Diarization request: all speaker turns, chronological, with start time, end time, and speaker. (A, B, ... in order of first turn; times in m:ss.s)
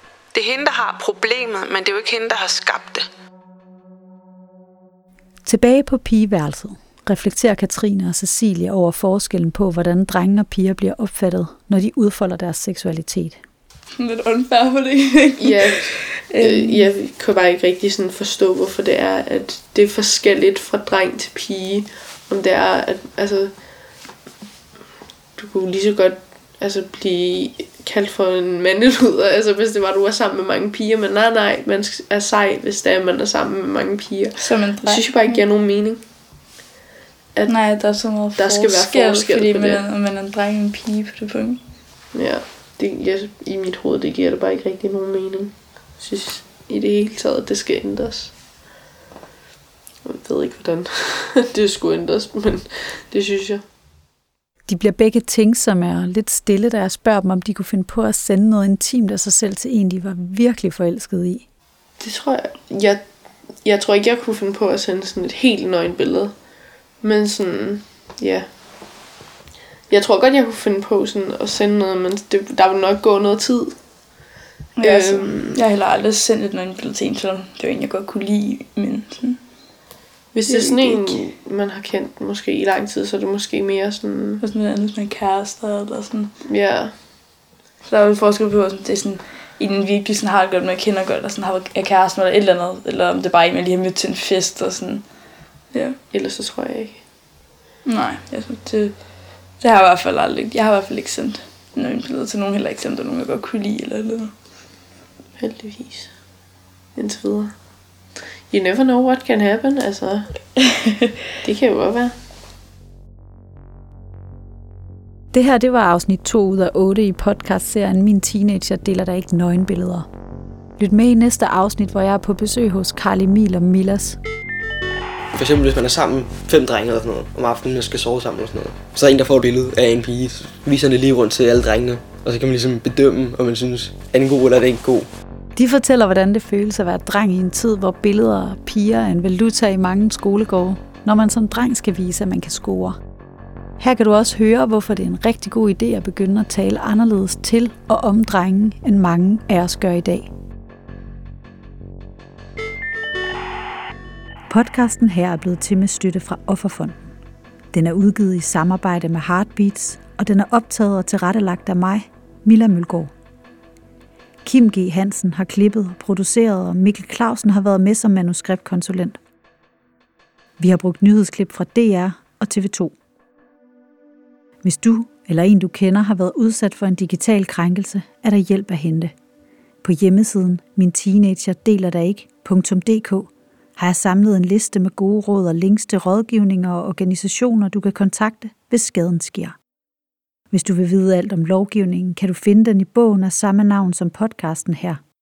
0:00.3-0:03.1 A
0:05.4-0:13.4 B
0:14.0-0:16.9 C
0:15.4-0:23.5 D
0:25.4-0:36.0 D
0:34.4-0:35.4 C
0:37.5-0:41.6 C
0:38.4-0:39.8 D
0:42.1-0:48.3 D
0:50.0-0:53.6 D
0:54.7-1:01.4 B
1:02.0-1:03.0 D
1:03.6-1:06.3 D
1:07.0-1:08.5 D
1:09.9-1:13.8 D
1:14.8-1:19.4 C
1:14.8-1:15.6 D
1:20.3-1:24.4 D
1:20.5-1:21.2 C
1:24.4-1:26.3 C
1:26.4-1:27.0 D
1:27.8-1:35.1 C
1:35.7-1:36.0 C
1:36.1-1:37.0 D
1:37.8-1:39.0 C
1:39.6-1:44.3 C
1:45.4-1:46.1 D
1:46.9-1:47.5 D
1:48.5-1:50.3 D
1:51.4-1:52.1 D
1:55.3-2:00.1 B
2:00.8-2:04.2 B
2:05.3-2:15.1 E
2:15.5-2:23.0 B
2:23.8-2:30.3 B
2:34.5-2:37.1 B
2:37.7-2:43.1 B
2:44.4-2:49.2 B
2:50.6-2:52.9 B
2:54.6-2:59.1 B
2:59.8-3:09.6 B
3:10.5-3:15.0 B